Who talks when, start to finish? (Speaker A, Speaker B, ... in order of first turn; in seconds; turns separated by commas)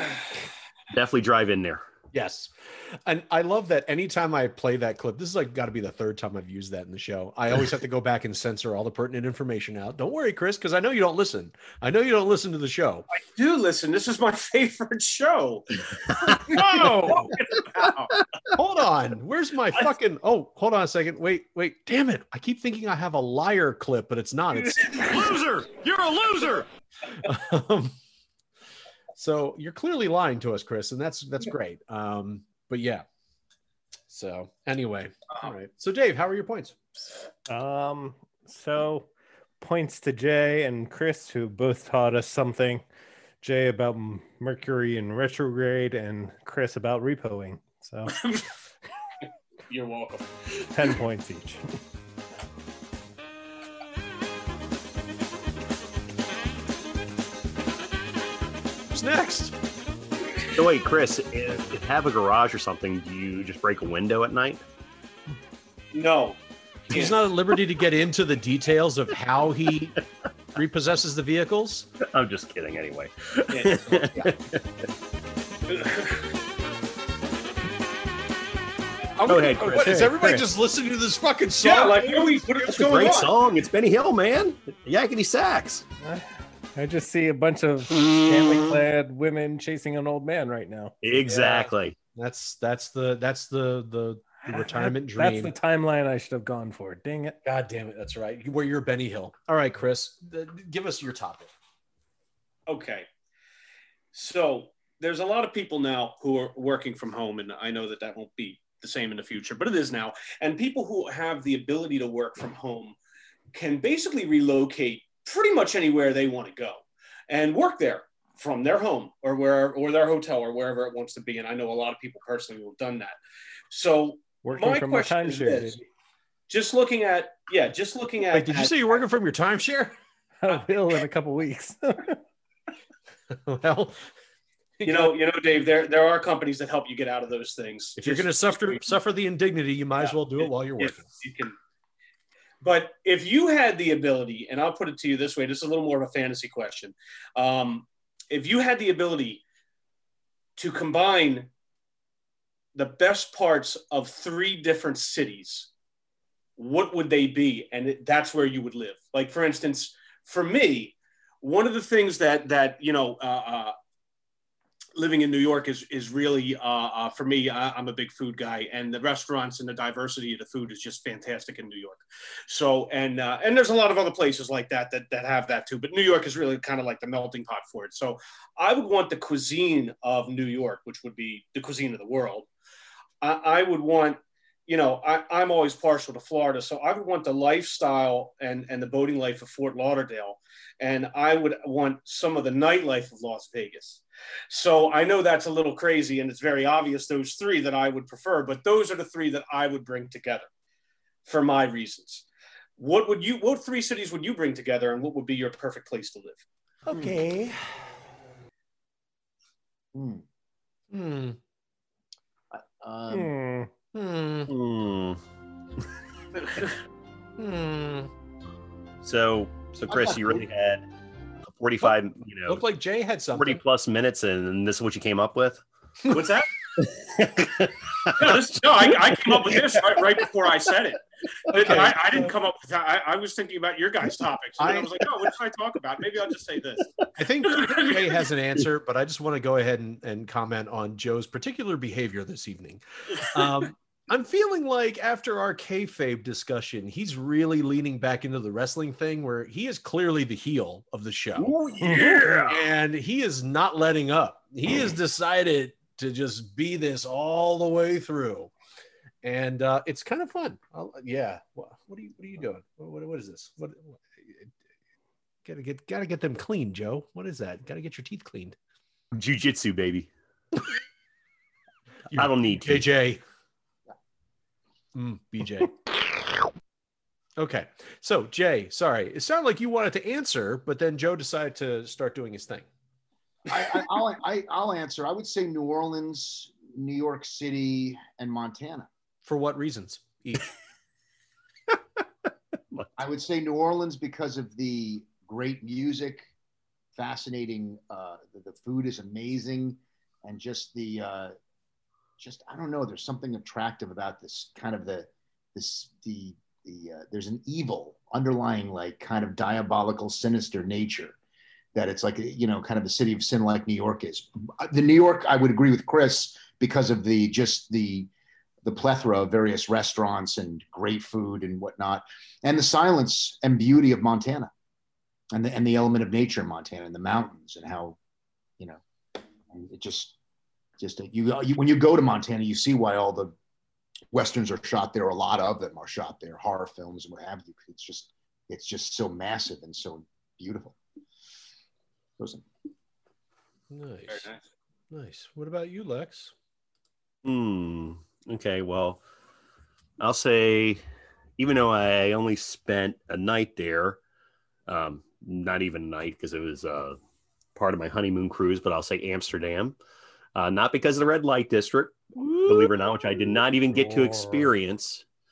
Speaker A: 0.9-1.8, Speaker B: 2.1-13.1, Speaker C: 13.1-15.7, Speaker C: 16.3-18.1, Speaker B: 16.5-17.4, Speaker B: 18.5-25.3, Speaker A: 25.0-26.6, Speaker B: 27.2-28.0, Speaker B: 29.1-33.0, Speaker B: 34.1-36.8, Speaker D: 37.5-39.1, Speaker D: 39.6-42.8, Speaker D: 43.4-48.1, Speaker C: 48.1-48.5, Speaker C: 49.7-50.3, Speaker D: 50.7-51.7, Speaker B: 58.9-59.6, Speaker A: 60.5-64.6, Speaker C: 65.9-66.4, Speaker C: 66.9-67.2, Speaker B: 66.9-70.0, Speaker B: 70.5-71.9, Speaker A: 72.0-74.6, Speaker C: 73.5-74.0, Speaker C: 75.7-76.2, Speaker B: 79.2-83.3, Speaker A: 79.3-80.4, Speaker C: 81.6-83.3, Speaker A: 82.7-85.8, Speaker D: 86.0-91.0, Speaker A: 91.0-92.0, Speaker B: 91.2-95.5, Speaker D: 94.5-97.4, Speaker B: 97.4-101.5, Speaker C: 102.7-103.1, Speaker C: 104.1-113.0, Speaker C: 113.5-123.2, Speaker C: 123.7-125.8, Speaker D: 124.4-125.8, Speaker C: 126.5-129.0, Speaker B: 128.3-130.0, Speaker D: 130.4-132.2, Speaker B: 133.3-134.1, Speaker C: 134.8-138.8, Speaker B: 138.0-141.1, Speaker C: 140.0-141.6, Speaker C: 142.6-149.4, Speaker C: 150.6-151.5, Speaker C: 152.8-155.7, Speaker C: 156.6-163.7, Speaker C: 165.0-182.5, Speaker C: 183.2-200.5, Speaker C: 201.2-202.3, Speaker C: 202.8-206.4, Speaker B: 206.9-207.8, Speaker E: 209.9-210.2, Speaker B: 210.9-211.4, Speaker E: 212.5-213.3, Speaker D: 213.1-213.7, Speaker B: 213.9-214.5, Speaker A: 214.5-215.2, Speaker B: 217.4-218.1, Speaker A: 219.0-220.9, Speaker E: 219.9-220.4, Speaker A: 221.5-222.6, Speaker B: 221.8-223.6, Speaker A: 223.3-225.6, Speaker C: 226.1-226.5, Speaker A: 226.8-228.4, Speaker C: 228.2-231.0, Speaker A: 229.3-230.0, Speaker C: 231.5-236.9, Speaker B: 231.5-232.3, Speaker B: 234.6-235.0, Speaker B: 237.2-258.5, Speaker C: 237.5-238.1, Speaker A: 251.4-252.6, Speaker D: 251.8-252.1, Speaker B: 259.2-264.5, Speaker B: 265.4-268.6, Speaker A: 269.1-270.1, Speaker B: 272.1-273.2, Speaker A: 272.1-272.8, Speaker B: 274.9-275.8, Speaker B: 277.4-282.7, Speaker E: 283.5-288.9, Speaker B: 289.2-290.5, Speaker E: 293.0-296.3, Speaker E: 296.9-301.3, Speaker E: 302.2-311.2, Speaker E: 311.8-318.1, Speaker E: 318.6-324.5, Speaker E: 325.3-328.0, Speaker E: 329.5-330.2, Speaker E: 330.8-333.3, Speaker E: 334.1-340.8, Speaker E: 342.2-342.4, Speaker B: 343.7-344.3, Speaker C: 344.1-344.4, Speaker B: 344.9-346.3, Speaker A: 347.2-349.0, Speaker A: 350.0-350.8, Speaker A: 351.4-354.0, Speaker A: 354.7-357.0, Speaker A: 357.6-359.8, Speaker A: 360.4-365.0, Speaker B: 362.2-362.7, Speaker D: 364.0-364.4